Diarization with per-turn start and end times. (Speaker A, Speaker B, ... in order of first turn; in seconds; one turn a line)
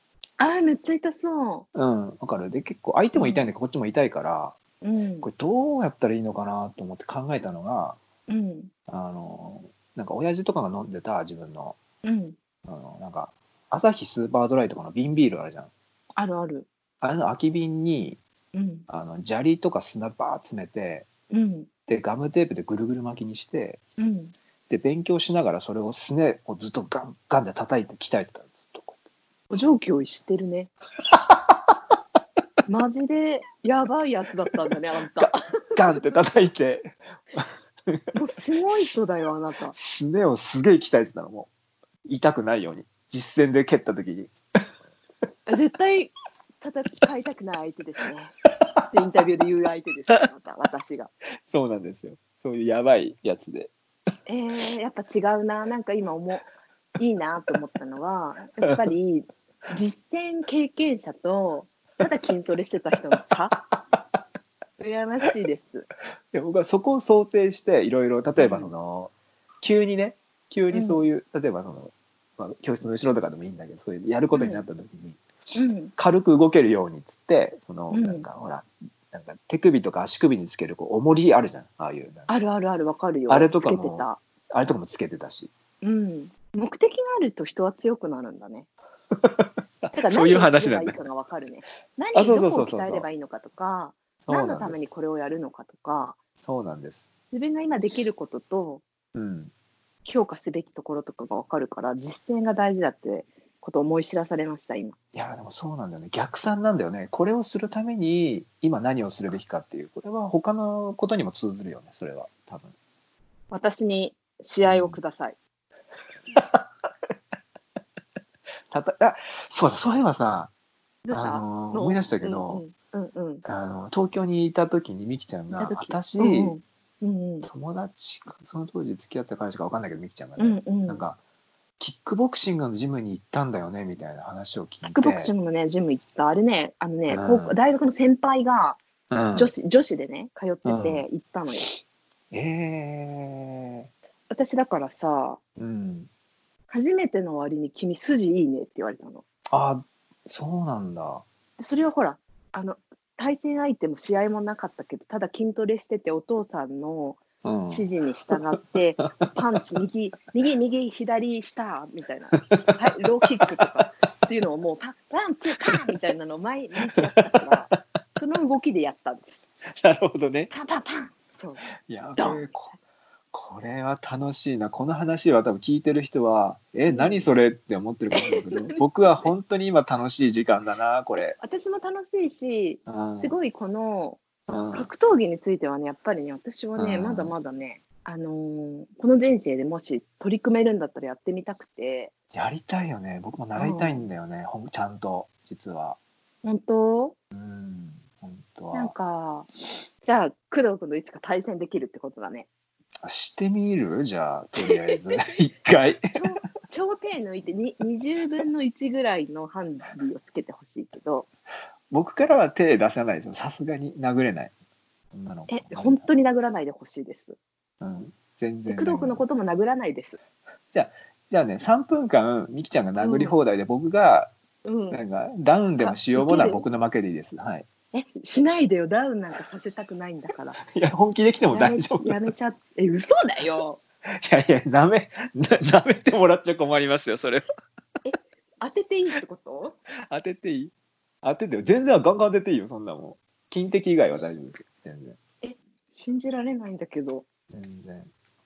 Speaker A: 0.4-1.7
Speaker B: 1.8-4.6
Speaker A: 3.1-3.5
Speaker A: 4.8-5.3
Speaker B: 5.2-8.0
Speaker A: 8.3-8.7
Speaker B: 8.9-11.8
Speaker A: 12.0-12.4
Speaker B: 12.7-15.7
Speaker A: 16.2-16.7
Speaker B: 17.0-18.2
Speaker A: 18.5-18.9
Speaker B: 18.9-21.1
Speaker A: 21.3-21.7
Speaker B: 21.9-23.8
Speaker A: 24.0-24.3
Speaker B: 24.7-29.0
Speaker A: 29.5-30.7
Speaker B: 31.1-31.8
Speaker A: 32.7-36.2
Speaker B: 35.2-38.0
Speaker A: 38.1-39.8
Speaker B: 39.7-41.5
Speaker B: 42.1-44.3
Speaker A: 45.5-48.3
Speaker A: 48.9-51.1
Speaker B: 51.5-53.7
Speaker A: 54.3-63.6
Speaker B: 58.6-58.9
Speaker A: 64.8-65.9
Speaker B: 66.3-75.2
Speaker A: 68.4-68.7
Speaker A: 70.7-71.1
Speaker A: 74.3-74.6
Speaker A: 75.5-75.9
Speaker B: 76.0-82.3
Speaker A: 77.9-78.2
Speaker A: 82.3-84.2
Speaker B: 83.3-85.5
Speaker A: 85.8-88.7
Speaker B: 89.2-91.0
Speaker A: 89.9-96.2
Speaker B: 92.1-93.1
Speaker B: 94.2-94.9
Speaker B: 96.4-97.1
Speaker A: 97.3-98.8
Speaker B: 99.2-99.5
Speaker A: 100.1-105.0
Speaker B: 105.1-112.7
Speaker A: 113.5-115.4
Speaker B: 114.6-115.0
Speaker B: 116.3-116.7
Speaker B: 118.7-120.5
Speaker A: 121.0-123.5
Speaker B: 121.1-122.6
Speaker B: 123.5-126.6
Speaker A: 125.5-127.5
Speaker B: 127.5-131.2
Speaker A: 130.4-131.0
Speaker B: 131.8-135.3
Speaker A: 134.8-138.8
Speaker B: 137.1-137.6
Speaker B: 139.1-139.5
Speaker A: 139.3-141.8
Speaker B: 140.7-141.1
Speaker B: 142.3-143.9
Speaker A: 144.3-145.4
Speaker B: 145.6-146.1
Speaker A: 146.7-149.2
Speaker B: 149.5-151.2
Speaker A: 151.6-169.4
Speaker B: 157.4-158.4
Speaker B: 159.0-159.6
Speaker B: 162.4-162.8
Speaker B: 163.4-163.9
Speaker B: 167.0-167.8
Speaker B: 169.7-170.5
Speaker A: 170.5-171.6
Speaker B: 171.9-172.7
Speaker A: 172.2-172.6
Speaker B: 173.3-181.4
Speaker A: 176.9-177.3
Speaker A: 178.1-179.3
Speaker A: 181.4-192.1
Speaker B: 182.9-183.3
Speaker B: 184.5-184.9
Speaker B: 186.8-187.3
Speaker B: 192.3-196.0
Speaker A: 193.6-194.0
Speaker A: 196.4-197.2
Speaker B: 197.3-198.9
Speaker A: 198.7-199.5
Speaker A: 200.0-202.5
Speaker B: 203.0-206.1
Speaker A: 204.6-205.2
Speaker A: 206.1-211.3
Speaker B: 211.9-214.5
Speaker B: 215.1-216.1
Speaker A: 215.5-217.4
Speaker B: 217.8-219.2
Speaker A: 218.7-220.2
Speaker B: 220.7-224.3
Speaker A: 223.0-223.4
Speaker A: 224.7-225.0
Speaker B: 224.9-227.7
Speaker A: 225.8-226.7
Speaker A: 227.9-230.6
Speaker B: 230.6-232.3
Speaker A: 231.5-233.8
Speaker B: 234.1-237.4
Speaker A: 238.0-239.8
Speaker B: 240.1-245.2
Speaker A: 245.4-247.3
Speaker B: 247.5-248.1